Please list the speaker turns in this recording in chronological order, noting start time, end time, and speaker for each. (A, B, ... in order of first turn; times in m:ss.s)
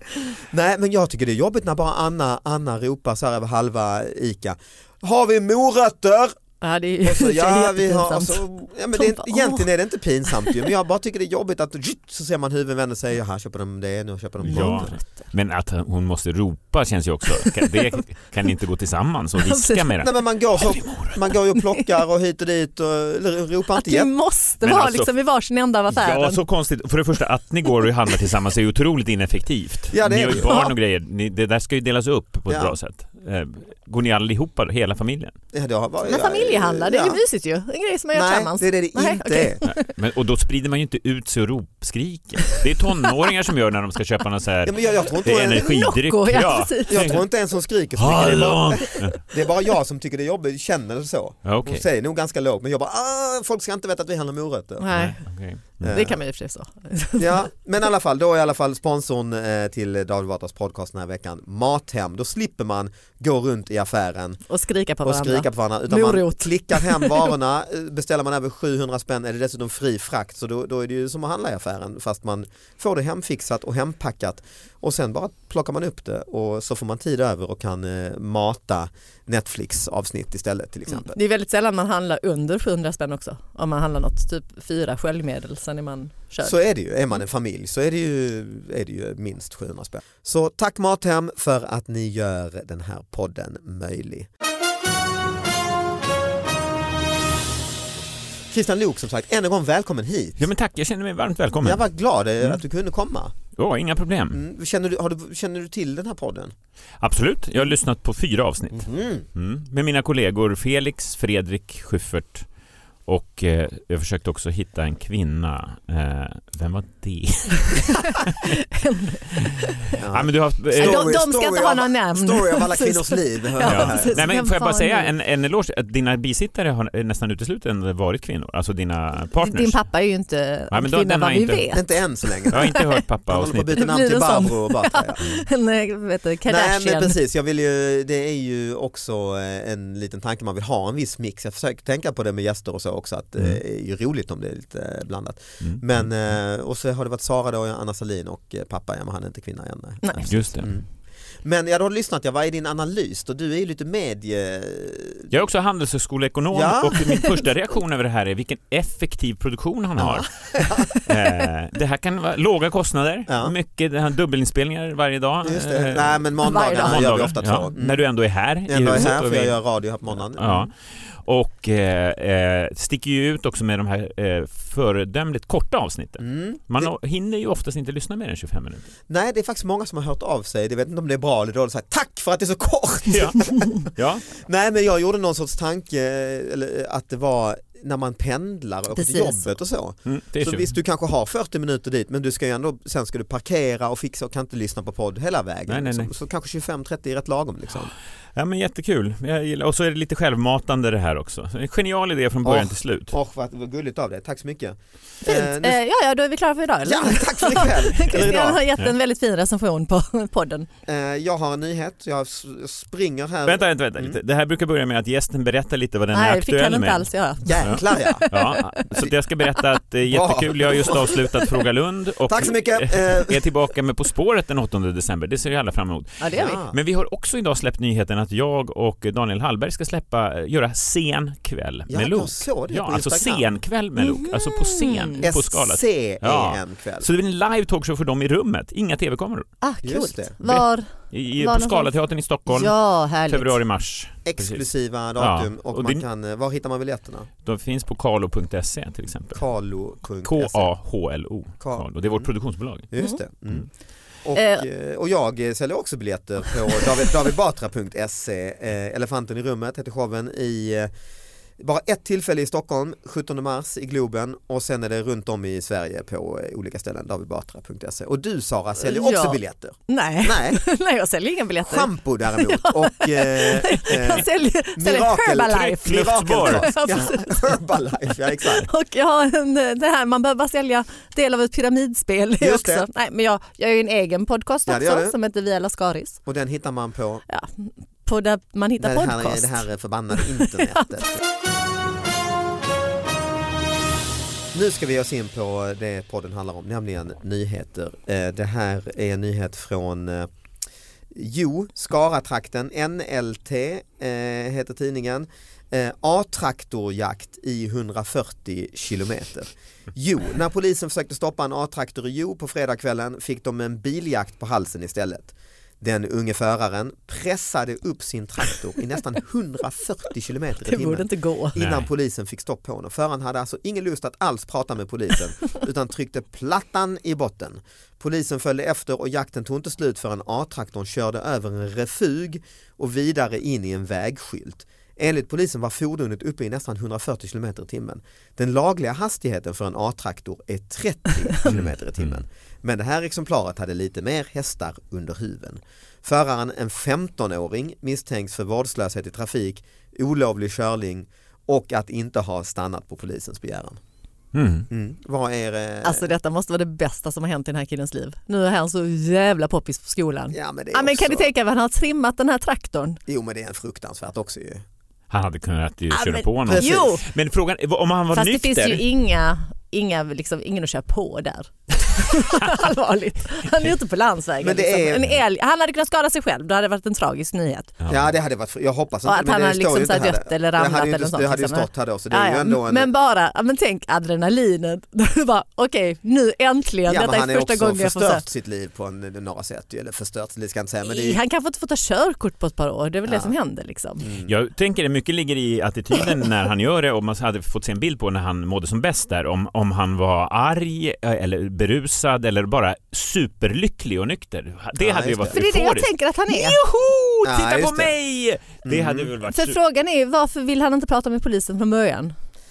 0:00.4-0:06.4 A
0:06.6-0:09.7 B
0:07.0-0:14.9 A
0:10.3-0:10.6 B
0:14.4-0:15.0 B
0:14.5-0:21.2 C
0:17.4-0:17.7 B
0:19.4-0:19.8 B
0:20.0-0:24.1 A
0:23.8-0:26.4 B
0:24.6-0:25.1 C
0:25.9-0:35.4 C
0:29.9-0:30.6 A
0:30.3-0:30.8 B
0:32.5-0:32.8 A
0:35.5-0:37.2 A
0:36.0-0:39.9 B
0:38.1-0:39.6 A
0:39.6-0:47.3 C
0:44.6-0:45.7 A
0:45.5-0:47.1 B
0:46.9-0:54.9 A
0:48.0-0:49.2 C
0:51.4-0:51.8 C
0:54.8-0:55.2 B
0:54.9-0:56.0 C
0:55.8-0:56.2 A
0:55.9-0:57.5 B
0:57.2-1:04.4 A
1:04.5-1:07.3 B
1:05.0-1:21.2 A
1:20.9-1:26.6 B
1:26.4-1:34.3 A
1:38.5-1:40.5 A
1:40.4-1:41.8 C
1:41.6-1:43.3 A
1:43.6-1:44.4 C
1:44.3-1:46.5 A
1:47.0-1:52.5 C
1:48.7-1:49.2 A
1:53.1-1:58.5 C
1:57.9-1:59.8 B
1:59.4-2:01.1 C
2:00.0-2:04.2 A
2:00.8-2:05.1 B
2:03.6-2:09.8 C
2:09.4-2:13.0 B
2:10.7-2:11.7 C
2:11.7-2:15.2 A
2:12.5-2:13.8 C
2:13.8-2:17.2 B
2:16.5-2:30.9 A
2:25.6-2:26.0 C
2:30.0-2:30.3 B
2:30.2-2:30.7 C
2:31.4-2:35.3 A
2:35.3-2:46.3 C
2:36.5-2:37.2 A
2:40.0-2:40.9 A
2:40.8-2:41.1 B
2:43.3-2:43.6 A
2:45.4-2:48.0 A
2:46.4-2:47.0 B
2:46.8-2:49.6 C
2:48.7-2:50.6 A
2:50.4-2:58.9 C
2:56.2-2:56.9 A
2:59.1-3:17.9 A
3:03.1-3:04.3 C
3:08.9-3:09.5 B
3:10.1-3:10.8 C
3:15.7-3:16.1 C
3:18.4-3:23.1 C
3:22.4-3:25.8 A
3:25.2-3:30.7 B
3:26.8-3:28.6 A
3:30.9-3:34.2 A
3:33.5-3:37.1 C
3:36.1-3:38.8 B
3:37.5-3:38.3 A
3:37.6-3:59.5 C
3:40.1-3:41.3 A
3:42.3-3:43.4 A
3:46.2-3:46.6 B
3:46.4-3:46.8 A
3:51.9-3:53.5 A
3:54.0-3:55.3 B
3:55.2-3:57.1 A
3:59.6-4:01.9 B
3:59.8-4:00.4 A
4:00.4-4:04.6 C
4:02.5-4:03.6 B
4:04.3-4:07.3 A
4:05.2-4:06.0 C
4:07.4-4:09.4 C
4:09.3-4:10.7 A
4:10.2-4:12.9 C
4:11.6-4:12.3 A
4:12.9-4:13.7 A
4:14.2-4:20.9 A
4:14.4-4:14.7 B
4:21.6-4:30.6 A
4:28.8-4:37.6 B
4:31.6-4:38.7 A
4:35.5-4:36.8 C
4:38.4-4:46.2 B
4:42.4-4:42.9 A
4:44.7-4:45.2 A
4:46.2-4:47.2 A
4:47.3-4:50.9 B
4:48.8-4:51.2 A
4:54.5-5:00.3 A
5:01.1-5:53.8 A
5:20.6-5:21.6 B
5:21.6-5:21.9 C
5:41.5-5:42.2 C
5:54.3-5:54.7 C
5:54.7-5:56.1 A
5:55.8-6:03.0 B
6:00.3-6:01.3 A
6:03.1-6:04.6 A
6:05.1-6:08.8 C
6:05.9-6:07.0 B
6:06.5-6:07.0 A
6:08.1-6:17.8 B
6:14.4-6:15.1 A
6:17.8-6:18.1 C
6:17.9-6:22.9 A
6:19.0-6:28.2 B
6:26.9-6:31.2 A
6:30.8-6:34.1 B
6:33.1-6:33.3 A
6:34.0-6:34.3 A
6:34.2-6:49.6 C
6:44.8-6:45.4 A
6:45.3-6:46.6 B
6:47.2-6:47.9 A
6:48.6-6:49.1 A
6:49.3-6:52.2 B